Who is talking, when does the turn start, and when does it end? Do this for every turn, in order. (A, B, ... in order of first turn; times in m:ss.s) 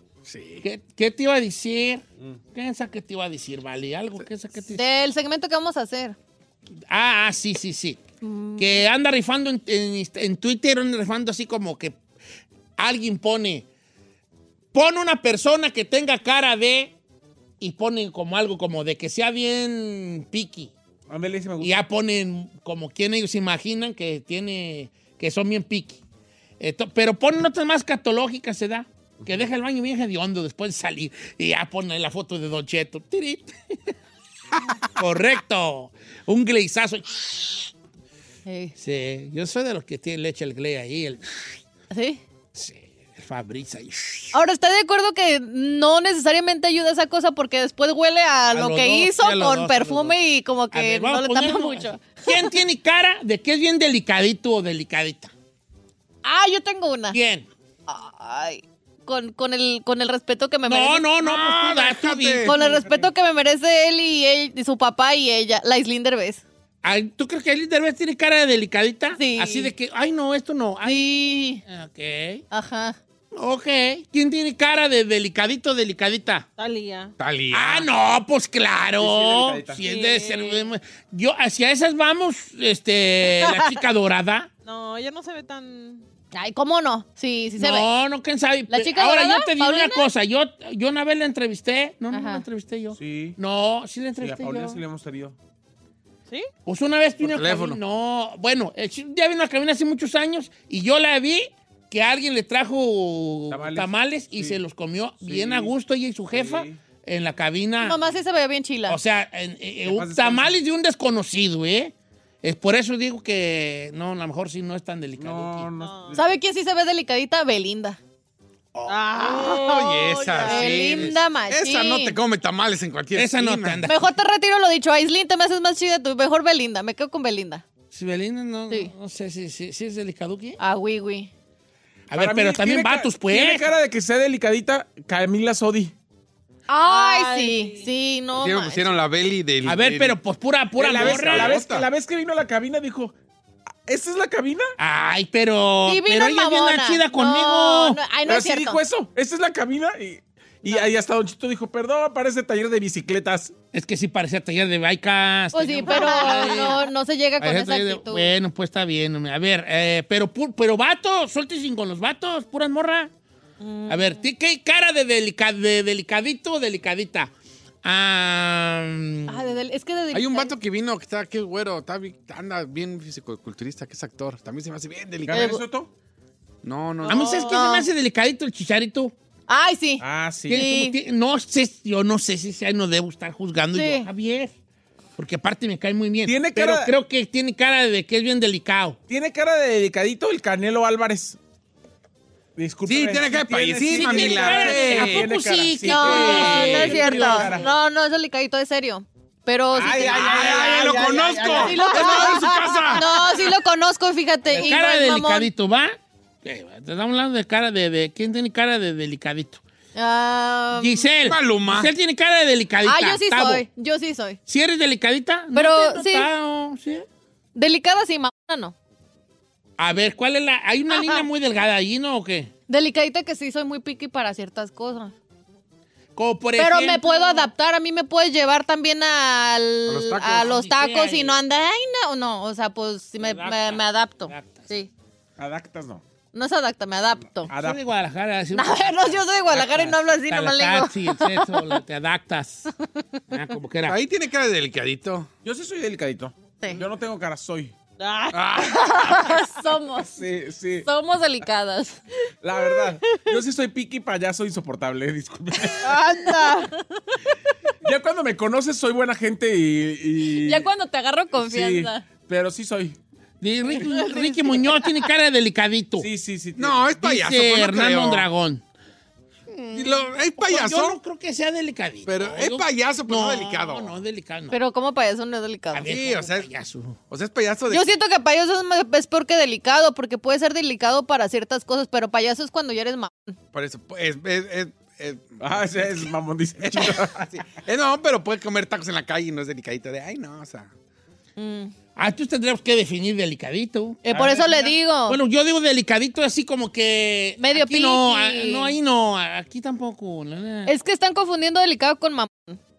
0:00.2-0:00.6 A
0:00.6-0:04.8 B
0:04.7-0:06.2 C
0:06.9-0:08.0 B
0:08.2-0:08.8 C
0:08.6-0:12.0 B
0:12.8-0:13.6 B
0:14.7-0:16.9 B
0:17.6-0:20.7 B
0:21.1-0:21.8 D
0:21.6-0:26.0 B
0:26.6-0:33.9 B
0:35.0-0:37.7 B
0:38.4-0:38.7 C
0:38.8-0:41.6 B
0:41.9-0:42.2 C
0:42.5-0:44.4 B
0:44.3-0:52.5 C
0:48.5-0:50.2 B
0:50.7-0:55.3 B
0:56.2-0:57.2 C
0:57.1-0:57.5 B
0:57.9-1:01.1 C
1:00.7-1:02.6 B
1:01.2-1:02.6 A
1:02.4-1:06.4 C
1:02.6-1:03.0 D
1:06.8-1:11.1 B
1:09.2-1:09.7 C
1:10.8-1:11.6 C
1:11.6-1:12.4 B
1:12.5-1:13.0 C
1:13.3-1:16.5 B
1:16.6-1:17.1 E
1:17.2-1:17.9 A
1:17.5-1:24.5 B
1:19.0-1:19.8 D
1:19.8-1:20.7 E
1:23.3-1:23.8 E
1:24.6-1:26.0 E
1:26.3-1:27.9 C
1:27.6-1:34.8 B
1:28.7-1:30.1 C
1:32.1-1:32.4 C
1:33.0-1:33.4 D
1:34.2-1:35.3 D
1:36.6-1:48.0 B
1:37.2-1:37.8 A
1:43.5-1:44.6 D
1:45.2-1:45.7 D
1:46.3-1:46.8 D
1:47.8-1:49.0 C
1:48.9-1:55.7 B
1:49.8-1:50.5 D
1:55.2-1:56.3 D
1:55.8-1:56.2 E
1:56.1-1:58.0 C
1:58.7-1:59.1 B
1:58.9-2:01.1 E
1:59.2-2:03.9 A
2:00.3-2:02.2 C
2:00.5-2:01.2 B
2:03.1-2:04.1 B
2:03.8-2:07.6 C
2:07.9-2:10.6 B
2:10.6-2:11.3 C
2:12.1-2:13.7 B
2:12.1-2:15.9 D
2:16.7-2:19.0 C
2:16.8-2:17.9 E
2:18.3-2:20.2 A
2:19.6-2:21.6 B
2:20.8-2:23.1 D
2:20.9-2:21.9 A
2:23.8-2:24.7 D
2:24.8-2:28.0 B
2:25.8-2:28.8 C
2:28.2-2:33.5 D
2:33.7-2:36.9 B
2:35.5-2:38.3 C
2:35.9-2:36.7 E
2:37.4-2:43.1 B
2:43.6-2:44.2 C
2:43.9-2:47.3 B
2:47.8-2:49.4 B
2:49.3-2:50.5 C
2:50.1-2:55.5 A
2:55.2-2:55.9 D
2:55.3-2:55.6 C
2:56.6-2:57.5 A
2:57.0-2:57.8 E
2:57.1-2:59.1 B
2:57.2-2:57.9 C
2:59.5-3:01.0 C
3:00.0-3:00.6 D
3:00.5-3:04.5 B
3:03.7-3:04.1 C
3:05.2-3:09.0 B
3:06.2-3:06.9 D
3:09.1-3:11.4 D
3:12.6-3:17.7 D
3:12.8-3:15.3 A
3:13.9-3:17.6 B
3:15.8-3:20.4 C
3:19.7-3:22.3 D
3:19.8-3:23.2 A
3:21.5-3:25.5 C
3:24.5-3:29.6 B
3:29.9-3:31.1 C
3:30.8-3:33.6 B
3:31.2-3:31.9 A
3:32.8-3:34.4 C
3:34.5-3:37.0 B
3:35.5-3:36.3 C
3:37.5-3:38.7 C
3:39.8-3:42.5 B
3:40.9-3:41.3 C
3:42.7-3:45.1 C
3:46.2-3:47.5 B
3:46.6-3:54.9 C
3:49.9-3:50.6 A
3:50.4-3:51.4 B
3:53.2-3:54.6 B
3:55.4-3:56.0 D
3:56.3-3:57.5 C
3:57.5-3:57.8 D
3:57.5-4:02.7 B
3:58.5-4:01.8 C
3:59.5-3:59.9 D
4:03.3-4:04.0 B
4:03.8-4:05.3 A
4:05.4-4:07.7 D
4:08.0-4:09.2 E
4:08.3-4:09.0 A
4:08.7-4:10.1 C
4:10.0-4:10.9 D
4:10.8-4:12.0 C
4:12.4-4:16.0 D
4:15.8-4:16.7 E
4:16.4-4:16.7 C
4:17.8-4:20.7 D
4:20.3-4:22.0 C
4:21.3-4:23.0 D
4:23.4-4:26.1 B
4:23.8-4:25.0 E
4:26.0-4:26.9 D
4:26.6-4:28.2 A
4:27.0-4:28.6 B
4:29.5-4:34.6 B
4:29.7-4:31.0 A
4:32.0-4:34.0 A
4:34.5-4:35.9 C
4:35.7-4:37.0 B
4:35.8-4:36.5 A
4:37.1-4:37.9 A
4:37.7-4:43.4 C
4:43.5-4:46.0 A
4:45.4-4:47.2 D
4:46.6-4:50.7 A
4:51.4-4:51.7 C
4:52.0-4:54.0 B
4:54.0-4:55.2 C
4:54.1-4:54.8 D
4:55.1-5:00.7 B
4:57.4-4:58.8 C
5:00.6-5:02.6 C